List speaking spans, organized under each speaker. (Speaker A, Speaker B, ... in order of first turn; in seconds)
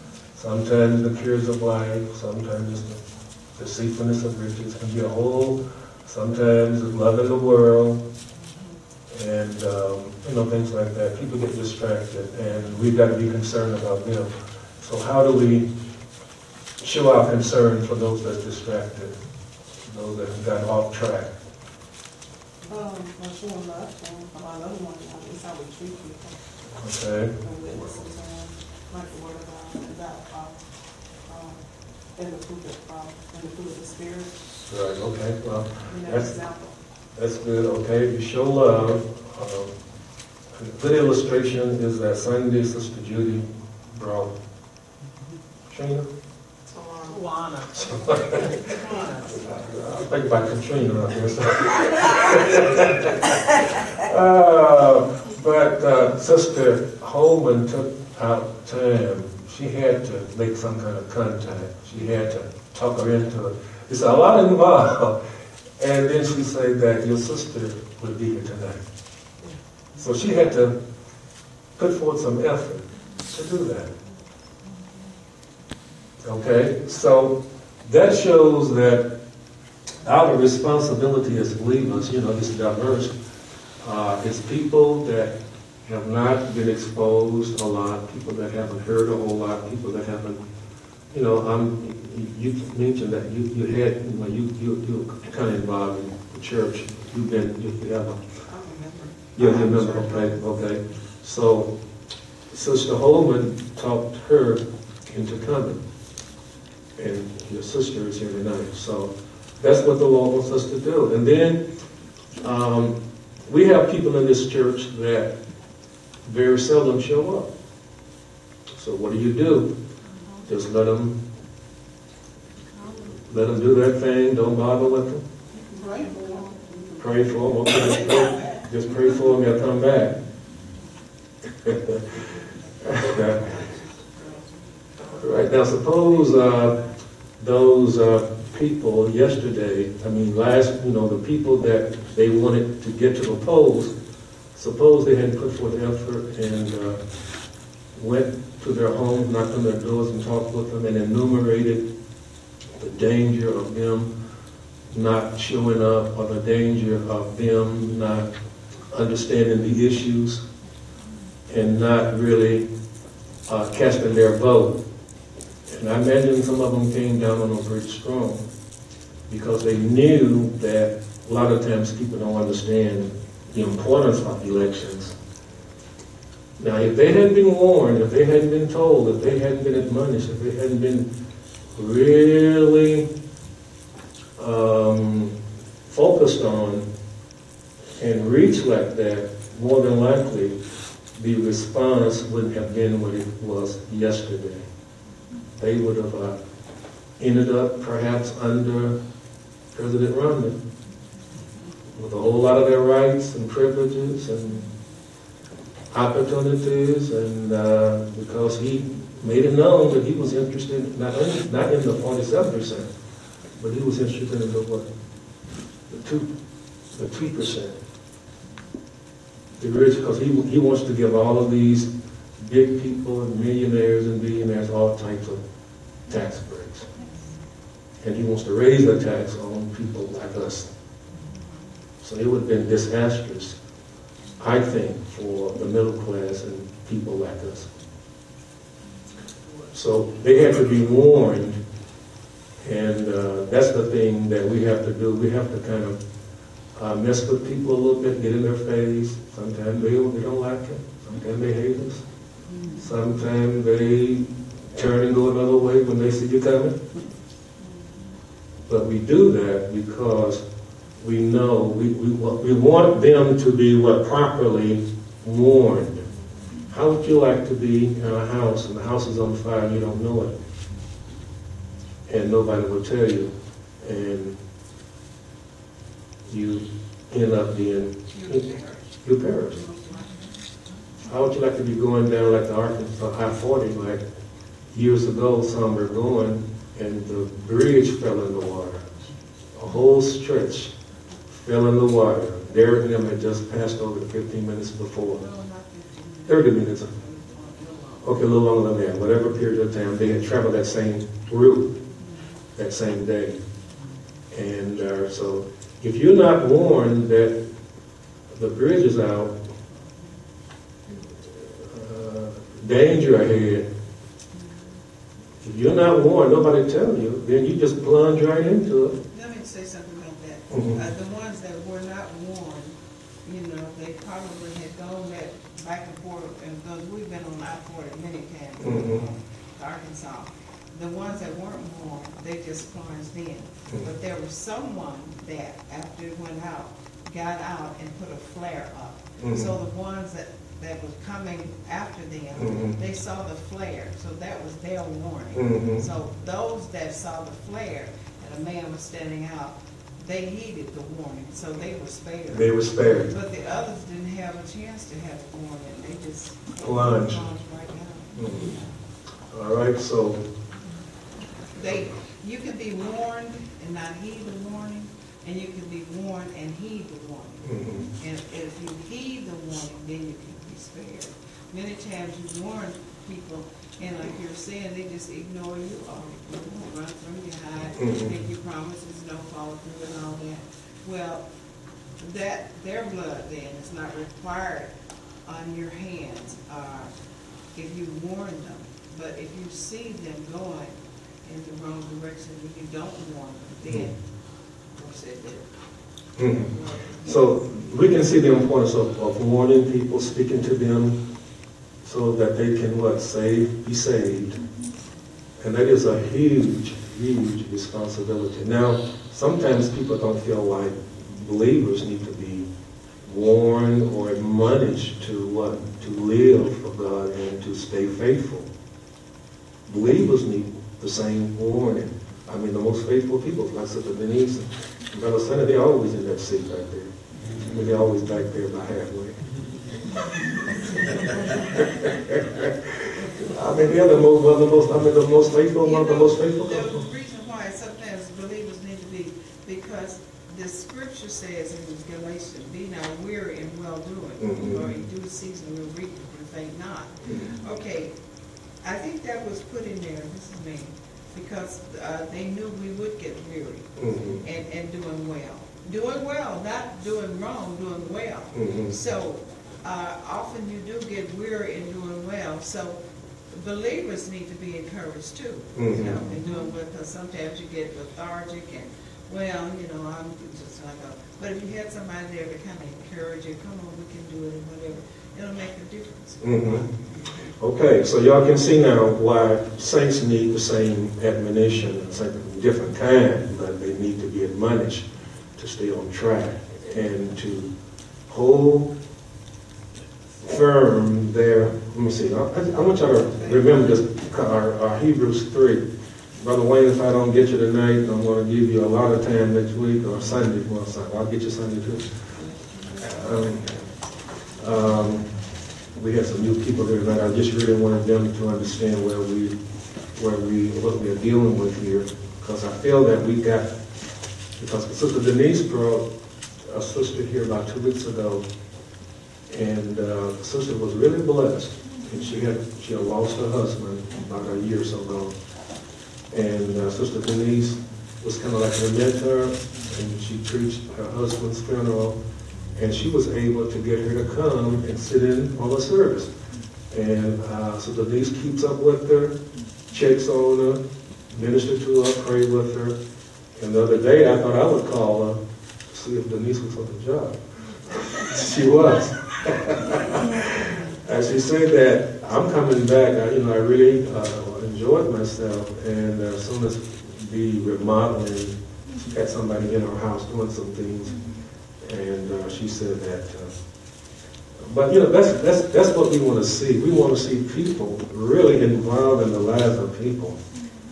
Speaker A: 0.3-3.0, 3.6-8.1, 9.1-15.7, 16.8-19.2, 19.9-21.3, 26.8-27.9, 34.7-36.3, 37.2-39.7, 40.5-44.3, 45.7-46.1, 47.7-48.8, 49.3-65.2, 65.8-68.8, 70.0-70.8, 71.8-73.9, 76.2-79.2, 80.0-83.1, 83.8-85.3, 85.9-90.4, 91.1-98.2, 99.4-101.8, 102.5-105.8, 107.0-111.6, 112.4-115.3, 116.3-117.5, 118.8-119.7, 120.5-121.2, 123.2-125.2, 127.0-130.2, 131.6-132.1, 132.8-133.5, 135.2-136.8, 137.4-143.9, 144.6-147.0, 147.9-151.8, 152.8-154.1, 154.9-158.3, 158.9-160.4, 161.5-162.7, 163.5-164.8, 165.7-168.4, 169.3-175.2, 176.6-181.1, 181.8-183.1, 184.4-185.4, 185.9-186.9, 188.0-190.6, 191.2-194.7, 195.6-196.4, 197.2-199.0, 199.7-200.6, 201.9-204.7, 205.9-212.9, 213.6-214.9, 215.9-216.3, 216.9-217.8, 219.6-225.4, 226.1-226.9, 228.0-230.7, 232.0-233.6, 234.4-237.8, 239.7-241.6, 242.6-246.0, 246.8-252.0, 252.8-256.8, 258.7-260.4, 261.0-266.1, 266.7-270.4, 272.1-274.4, 276.3-278.4, 279.0-279.6, 281.1-284.0, 284.7-288.9, 289.6-290.7, 291.3-295.2, 296.3-296.9, 298.0-301.8, 302.6-303.4, 304.3-307.4, 308.3-309.3, 311.3-313.7, 315.4-319.0, 320.5-320.8, 328.6-329.0, 339.2-339.5, 342.4-342.8, 345.3-345.9, 352.3-353.1, 356.6-357.2, 358.2-358.6, 359.3-360.2, 367.4-367.9, 377.8-378.1, 396.2-396.5, 397.0-401.0, 401.8-404.4, 405.4-412.5, 413.0-418.5, 419.7-429.2, 431.3-436.8, 444.2-444.6, 453.8-454.2, 458.3-458.7, 465.6-466.1, 476.2-476.7, 477.4-487.5, 488.1-488.7, 490.2-495.6, 496.2-501.9, 502.8-503.5, 504.4-505.1, 505.8-509.4, 509.9-513.5, 514.4-515.9, 516.5-518.2, 519.3-525.1, 526.1-532.0, 532.5-536.1, 536.7-539.2, 539.7-542.8, 543.4-545.2, 545.7-547.2, 547.7-561.1, 561.6-563.4, 564.5-570.2
Speaker B: 22.6-26.4, 27.4-30.6, 31.3-31.6, 32.1-34.4, 35.9-36.8, 46.7-47.6, 98.5-100.2, 125.5-127.0
Speaker C: 132.9-135.2, 278.1-278.9, 279.6-280.4, 295.1-298.2, 319.1-358.7, 361.6-381.3, 382.0-384.7, 385.2-386.9, 387.5-393.9, 394.7-395.5, 396.2-397.1, 435.6-447.9, 448.6-462.8, 463.3-476.6